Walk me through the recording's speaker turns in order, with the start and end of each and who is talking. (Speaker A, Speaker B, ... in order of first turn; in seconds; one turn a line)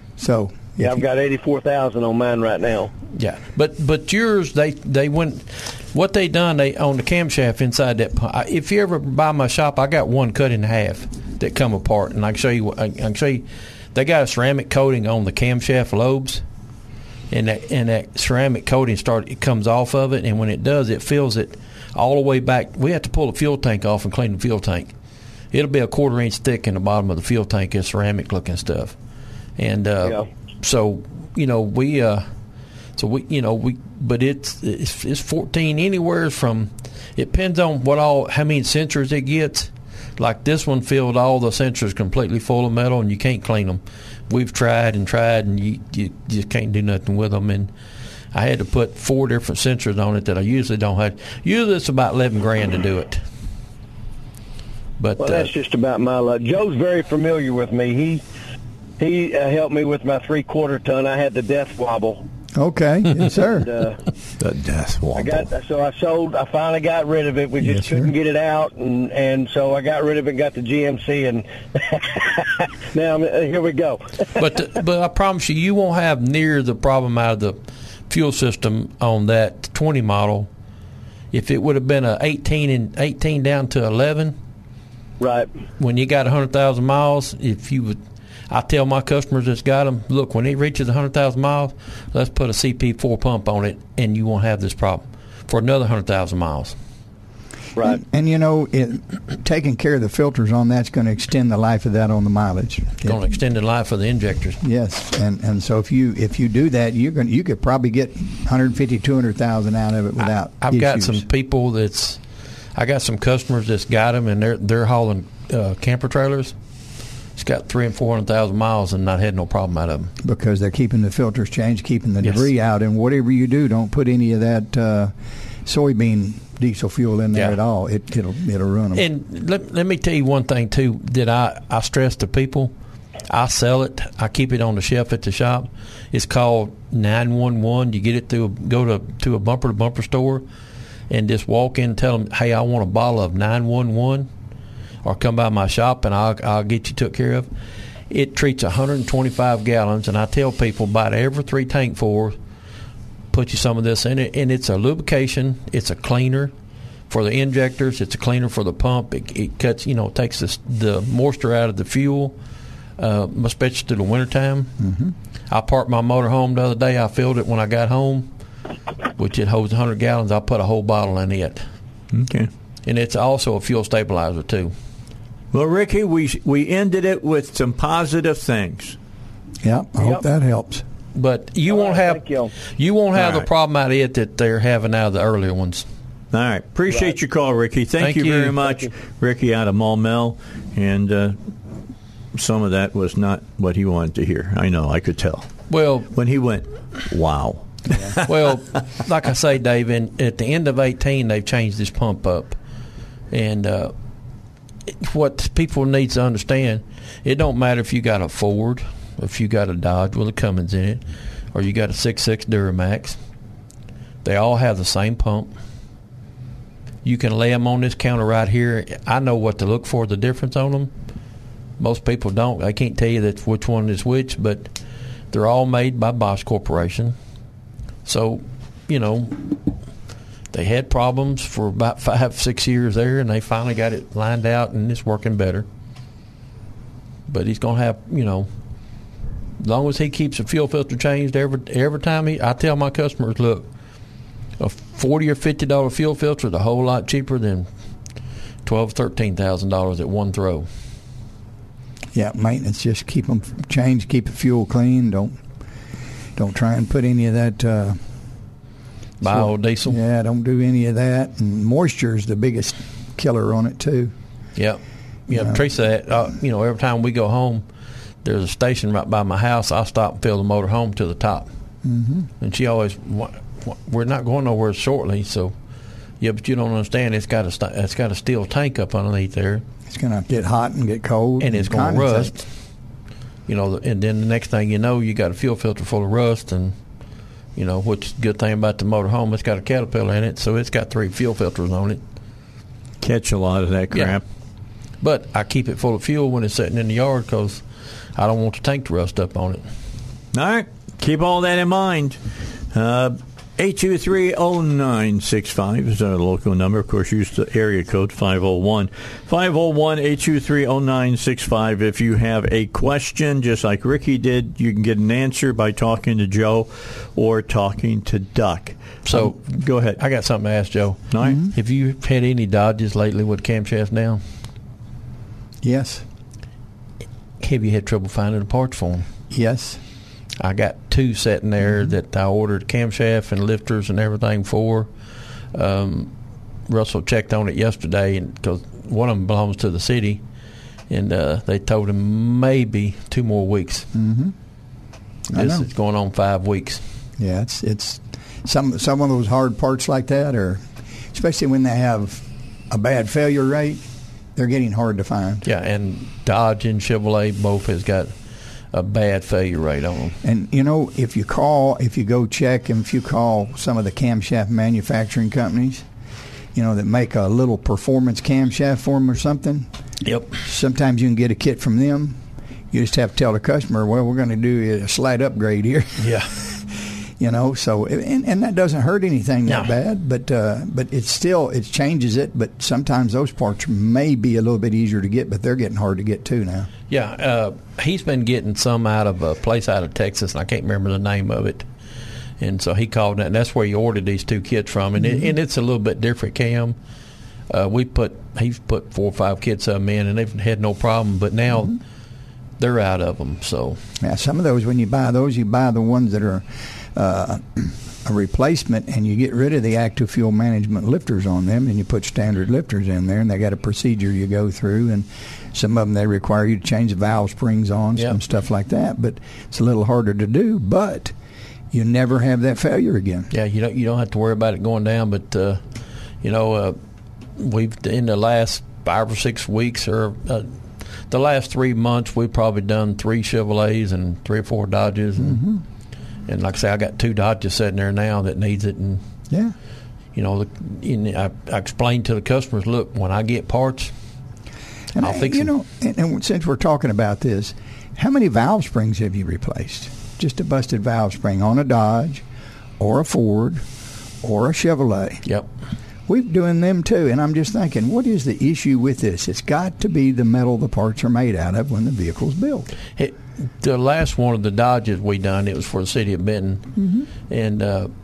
Speaker A: 0.2-1.0
Speaker B: 0.8-2.9
Speaker C: 3.1-16.4
Speaker C: 17.3-24.9
Speaker C: 25.5-29.0
Speaker C: 29.6-32.3
Speaker C: 33.0-47.7
Speaker C: 48.3-53.2
Speaker C: 55.0-55.5
Speaker B: 55.2-58.2
Speaker B: 59.0-62.3
Speaker A: 62.6-63.7
Speaker B: 63.6-64.0
Speaker D: 64.4-65.5
Speaker B: 65.2-74.4
Speaker A: 67.6-68.1
Speaker C: 74.4-80.5
Speaker C: 81.3-84.4
Speaker B: 85.2-85.5
Speaker C: 85.8-88.0
Speaker C: 88.5-96.8
Speaker A: 97.8-103.2
Speaker C: 103.0-104.6
Speaker A: 104.6-111.3
Speaker C: 110.2-116.6
Speaker C: 117.3-120.1
Speaker A: 120.2-125.1
Speaker C: 122.2-122.5
Speaker A: 125.7-129.1
Speaker C: 127.3-127.6
Speaker C: 128.9-132.7
Speaker C: 133.3-140.5
Speaker C: 141.1-144.3
Speaker C: 145.0-147.5
Speaker C: 148.1-152.4
Speaker C: 153.3-156.5
Speaker C: 157.1-162.4
Speaker C: 163.0-164.8
Speaker A: 164.8-165.1
Speaker C: 165.5-168.3
Speaker C: 169.2-171.7
Speaker D: 172.1-172.5
Speaker C: 172.8-174.7
Speaker D: 175.5-179.0
Speaker A: 179.6-180.8
Speaker B: 180.0-180.2
Speaker C: 181.1-185.9
Speaker B: 181.7-182.5
Speaker D: 183.2-183.5
Speaker D: 186.3-191.4
Speaker C: 188.0-188.7
Speaker D: 192.3-198.3
Speaker C: 195.7-196.1
Speaker C: 198.2-202.6
Speaker C: 203.3-203.9
Speaker C: 204.9-213.2
Speaker C: 214.2-215.5
Speaker C: 217.0-220.9
Speaker C: 221.8-227.2
Speaker C: 228.1-229.6
Speaker C: 230.5-235.7
Speaker C: 237.3-238.5
Speaker C: 239.6-243.7
Speaker C: 244.6-247.7
Speaker C: 248.6-250.7
Speaker A: 252.1-255.4
Speaker A: 256.4-258.0
Speaker C: 259.2-260.0
Speaker A: 259.3-264.1
Speaker C: 264.6-267.7
Speaker A: 265.3-265.6
Speaker C: 268.2-271.5
Speaker A: 271.8-272.3
Speaker C: 272.4-275.6
Speaker C: 276.2-279.6
Speaker A: 279.9-282.4
Speaker C: 281.4-282.5
Speaker C: 283.5-292.0
Speaker D: 293.0-294.2
Speaker C: 293.9-294.2
Speaker C: 295.0-299.7
Speaker D: 300.3-302.2
Speaker D: 302.7-320.0
Speaker C: 319.1-324.2
Speaker D: 321.1-321.4
Speaker A: 321.2-321.5
Speaker A: 325.6-326.0
Speaker C: 327.4-329.1
Speaker A: 329.3-329.8
Speaker C: 330.4-334.9
Speaker C: 335.5-336.1
Speaker C: 336.7-340.2
Speaker C: 340.9-343.9
Speaker A: 343.9-344.4
Speaker C: 345.3-346.8
Speaker A: 345.3-345.7
Speaker A: 347.2-353.8
Speaker A: 354.4-355.4
Speaker C: 355.4-358.2
Speaker C: 358.7-360.2
Speaker A: 360.2-365.9
Speaker A: 366.6-369.7
Speaker C: 370.0-370.4
Speaker A: 370.4-372.2
Speaker A: 372.7-376.6
Speaker C: 376.0-376.3
Speaker A: 377.2-386.7
Speaker C: 379.5-379.7
Speaker C: 386.9-391.7
Speaker C: 392.4-396.8
Speaker C: 397.5-401.8
Speaker C: 402.6-403.8
Speaker A: 404.0-421.1
Speaker A: 421.7-423.3
Speaker C: 423.3-426.8
Speaker C: 427.4-435.4
Speaker A: 435.2-435.6
Speaker C: 436.3-439.0
Speaker C: 440.1-443.9
Speaker A: 445.0-452.2
Speaker C: 445.0-445.5
Speaker A: 452.8-453.6
Speaker A: 454.2-455.2
Speaker A: 456.1-462.7
Speaker C: 463.0-466.7
Speaker A: 466.8-467.1
Speaker C: 467.2-467.9